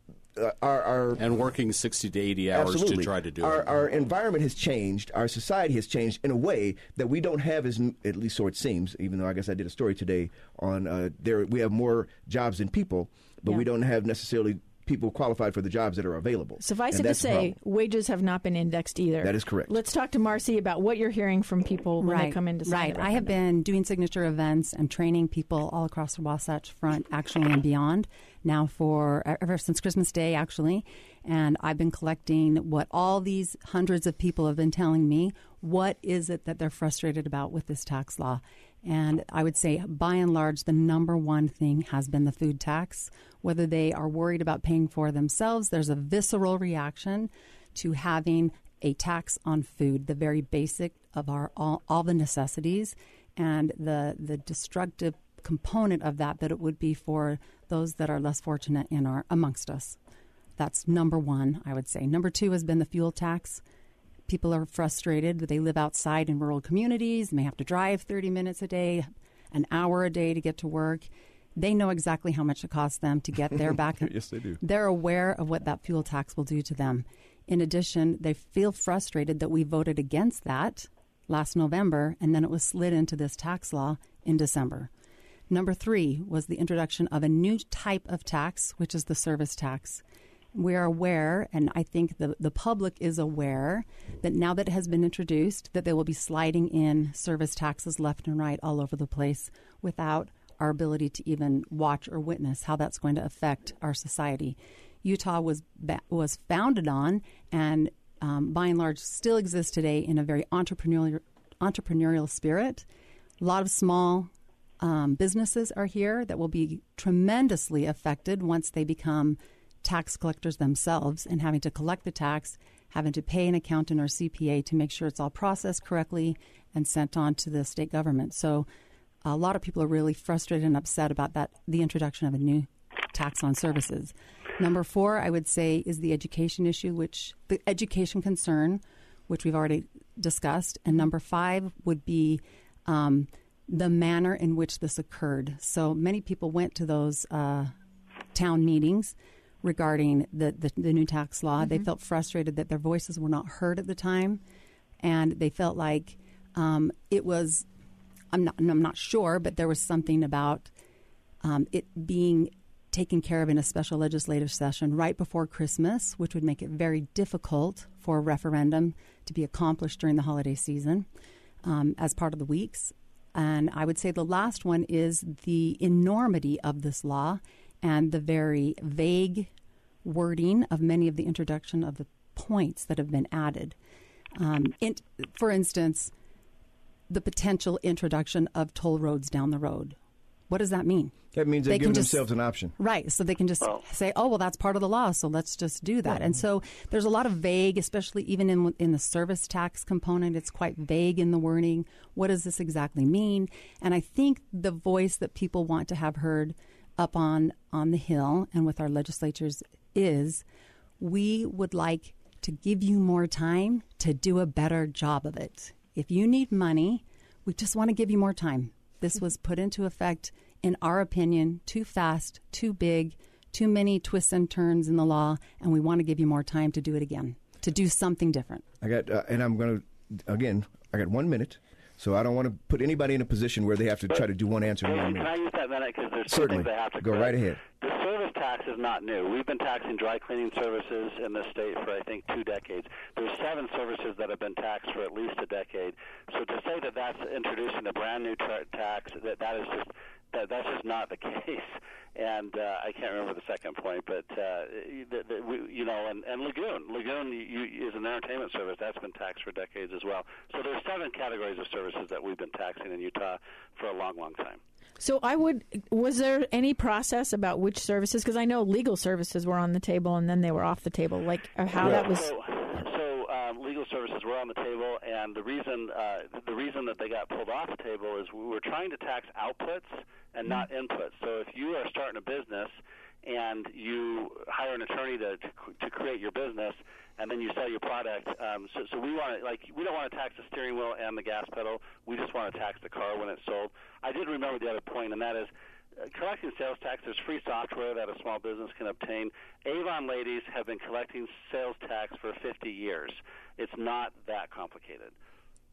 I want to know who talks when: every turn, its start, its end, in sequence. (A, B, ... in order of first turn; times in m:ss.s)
0:00.3-0:01.2 A
0:01.2-0:03.6 B
0:02.5-0:17.6 A
0:16.6-0:23.3 C
0:19.2-0:19.8 A
0:22.0-1:00.0 D
1:00.6-1:03.6 D
1:04.3-1:24.9 D
1:13.6-1:14.6 A
1:25.5-1:30.0 D
1:30.5-1:52.8 D
1:53.4-2:08.7 D
2:09.2-2:27.7 D
2:28.3-2:34.4 D
2:31.6-2:31.9 C
2:35.0-2:37.6 D
2:38.3-2:40.7 D
2:41.4-2:51.1 D
2:51.6-2:59.5 D
3:00.0-3:03.8 D
3:04.4-3:06.1 D
3:07.1-3:10.0 D
3:10.5-3:11.2 D
3:11.3-3:12.7 A
3:11.7-3:12.2 D
3:12.8-3:30.4 D
3:31.0-3:48.6 D
3:48.8-3:55.3 A
3:55.5-3:56.6 E
3:56.3-3:57.6 A
3:57.8-4:11.6 E
4:12.2-4:24.6 E
4:25.0-4:32.3 C
4:31.9-4:42.7 E
4:43.2-4:55.5 E
4:56.1-5:05.1 E